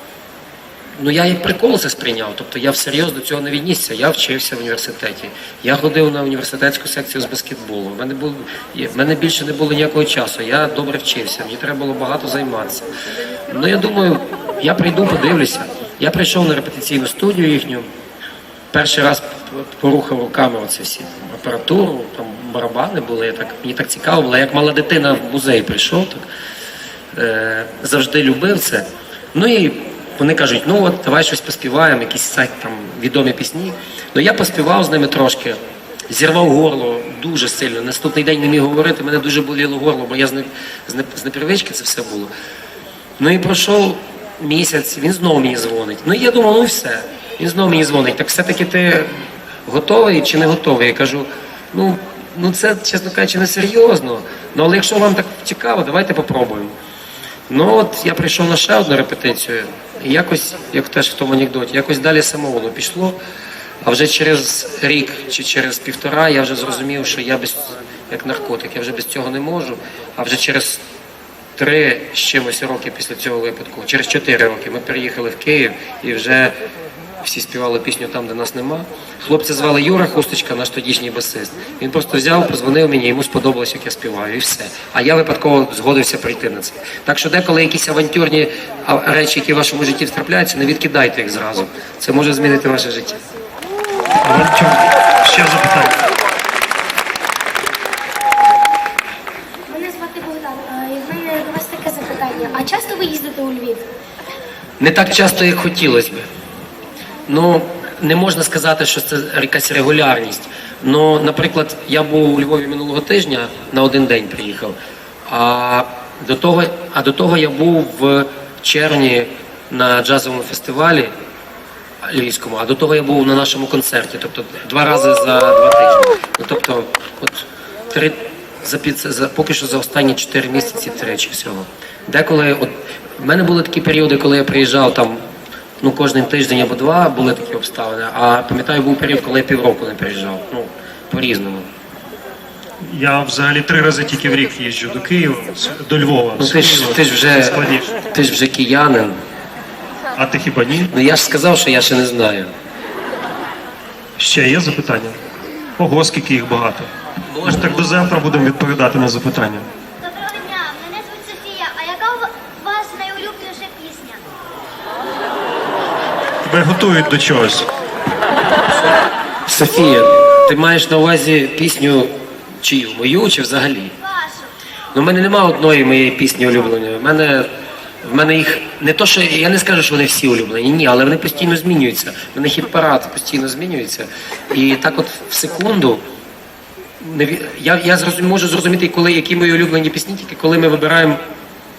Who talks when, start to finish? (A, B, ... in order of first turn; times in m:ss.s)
0:01.0-0:12.9 A
0:13.5-0:17.9 A
0:18.7-0:26.2 A
0:27.1-0:42.3 A
0:43.2-0:56.7 A
0:57.5-1:03.2 A
1:03.8-1:10.8 A
1:11.6-1:16.6 A
1:17.2-1:33.2 A
1:34.2-1:36.0 B
1:39.7-1:43.9 C
1:44.8-1:46.2 A
1:47.3-2:01.1 A
2:02.0-2:15.2 A
2:15.8-2:21.7 A
2:22.8-2:28.0 B
2:26.4-2:27.6 A
2:28.1-2:29.2 A
2:30.2-2:30.9 B
2:30.9-2:32.5 A
2:34.2-2:35.2 B
2:35.8-2:36.9 B
2:37.3-2:38.0 A
2:37.4-2:39.7 B
2:40.0-2:44.2 C
2:46.4-2:47.7 B
2:49.5-2:53.9 A
2:54.9-2:57.5 A
2:58.0-3:06.0 A
3:07.0-3:11.2 A